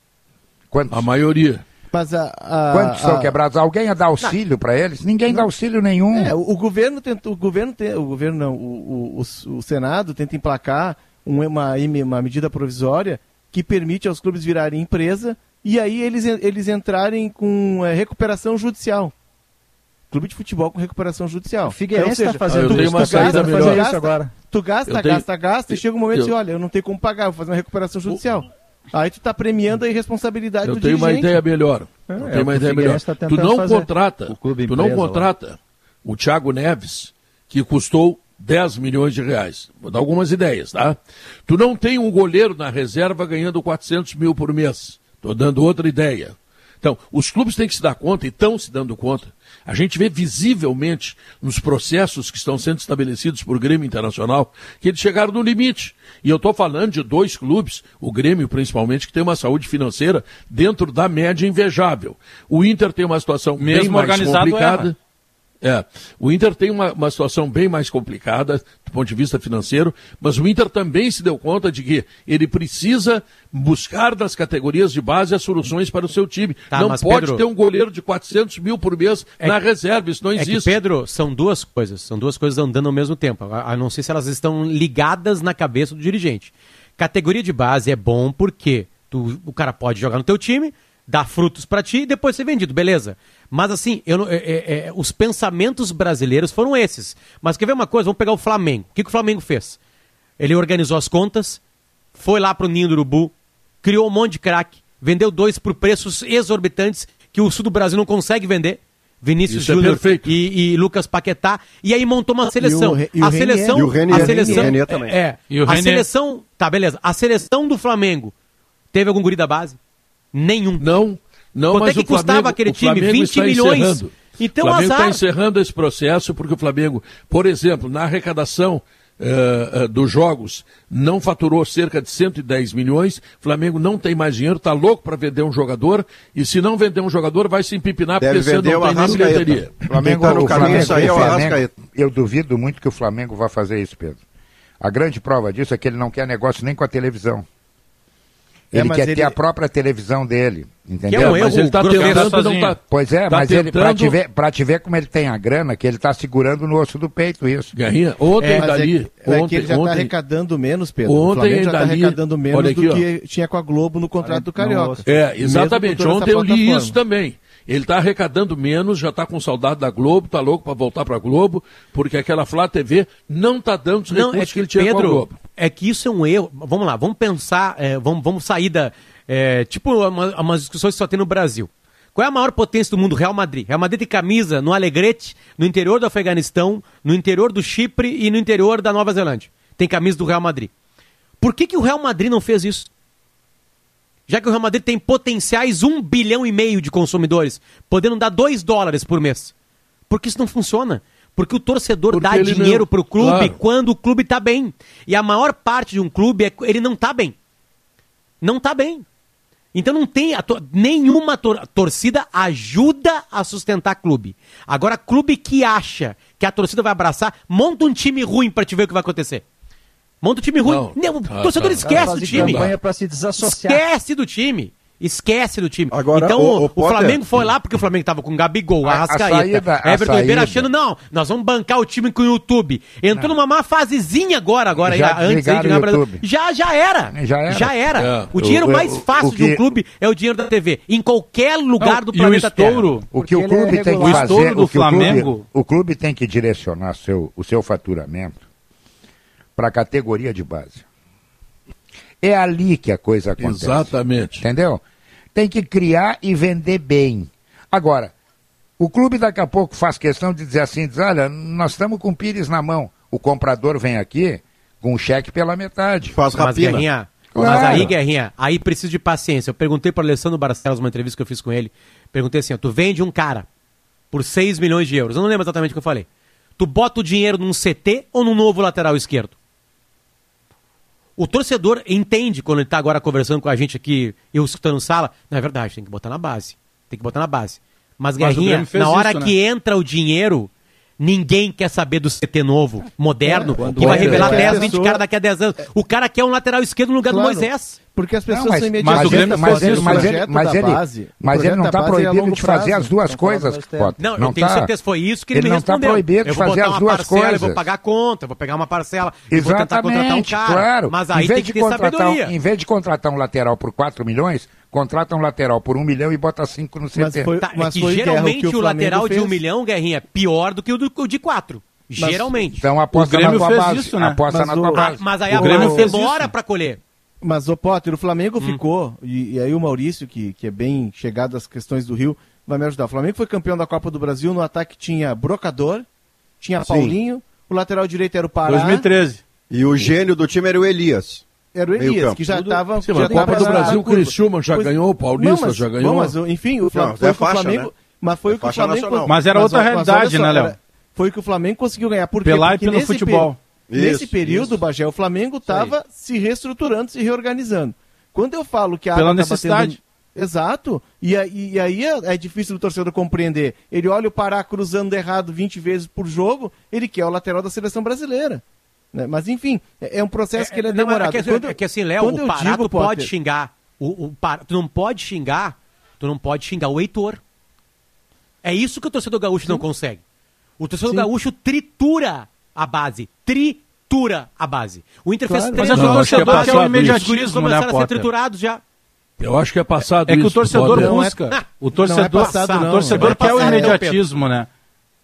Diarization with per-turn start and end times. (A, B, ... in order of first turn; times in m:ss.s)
0:00.7-0:01.0 A
0:00.9-0:01.6 B
0:01.9-0:03.4 C
0:02.7-0:06.3 A
0:06.1-0:19.1 C
0:20.1-0:31.4 C
0:21.6-0:24.3 D
0:22.5-0:23.9 B
0:24.9-0:26.3 B
0:30.6-1:05.0 B
0:32.2-0:35.3 D
1:03.6-1:04.9 E
1:05.6-1:20.7 B
1:16.7-1:17.4 F
1:20.4-1:39.8 F
1:40.4-1:41.6 F
1:42.2-1:58.3 F
1:49.5-1:50.3 B
1:52.6-1:54.8 C
1:53.7-1:55.2 G
1:55.5-1:56.0 E
1:58.9-1:59.8 F
2:00.3-2:00.8 F
2:00.8-2:19.8 B
2:01.7-2:05.2 F
2:18.2-2:21.7 G
2:19.9-2:24.2 A
2:20.3-2:20.8 B
2:24.8-2:27.4 A
2:28.7-2:31.6 A
2:28.7-2:29.4 C
2:31.1-2:32.3 F
2:31.1-2:34.2 B
2:31.8-2:32.8 E
2:32.9-2:37.7 A
2:37.7-2:40.1 B
2:38.4-2:38.7 F
2:38.6-2:47.0 C
2:41.0-2:43.0 B
2:44.2-2:45.0 D
2:45.0-2:55.4 B
2:54.1-3:10.7 F
3:11.4-3:12.9 F
3:14.3-3:19.5 F
3:20.1-3:27.4 F
3:22.1-3:23.6 B
3:28.4-3:29.0 F
3:29.7-3:39.4 F
3:40.2-3:42.7 F
3:40.6-3:42.8 B
3:41.8-3:43.8 D
3:43.4-4:02.9 F
3:45.9-3:47.5 G
3:48.8-3:50.7 A
3:54.8-3:56.2 A
3:57.1-3:57.8 A
3:58.0-3:58.3 B
3:58.4-3:59.6 A
4:01.8-4:03.1 E
4:03.1-4:08.4 A
4:03.1-4:05.2 D
4:04.0-4:05.5 E
4:09.6-4:10.8 A
4:12.2-4:14.8 A
4:13.4-4:14.4 B
4:15.3-4:18.1 A
4:18.8-4:26.2 A
4:26.1-4:26.8 G
4:26.4-4:33.5 F
4:27.3-4:27.9 A
4:27.5-4:27.8 G
4:34.1-4:36.1 F
4:36.6-4:39.4 F
4:41.2-4:57.8 F
4:48.2-4:49.3 E
4:53.2-4:55.0 C
4:53.5-4:54.7 D
4:57.1-5:02.9 C
4:58.3-5:04.7 A
4:58.8-5:00.1 E
5:02.9-5:04.0 D
5:04.0-5:12.3 F
5:05.3-5:07.6 A
5:09.3-5:17.3 A
5:17.0-5:19.4 C
5:17.4-5:22.6 F
5:22.0-5:22.4 C
5:22.6-5:25.6 A
5:22.9-5:24.2 E
5:24.3-5:24.8 C
5:24.7-5:26.8 F
5:25.4-5:26.3 E
5:25.4-5:25.9 C
5:27.2-5:35.9 C
5:36.4-5:38.9 C
5:36.6-5:37.0 G
5:38.5-5:39.2 E
5:39.5-5:41.3 G
5:41.5-6:08.4 C
5:41.8-5:42.2 G
5:42.8-5:46.2 B
5:43.0-5:43.8 D
5:46.7-5:47.7 G
5:48.3-5:49.2 G
5:49.1-5:50.5 E
5:52.2-5:53.4 E
5:53.7-5:54.6 G
5:55.5-5:55.7 G
5:59.0-5:59.8 E
6:08.9-6:13.1 C
6:10.4-6:17.2 F
6:18.4-6:20.0 F
6:20.6-6:28.6 F
6:25.3-6:25.8 C
6:25.6-6:28.1 E
6:25.7-6:27.0 B
6:29.2-6:30.9 B
6:30.0-6:34.5 E
6:30.6-6:31.2 C
6:31.3-6:34.0 F
6:31.7-6:33.8 C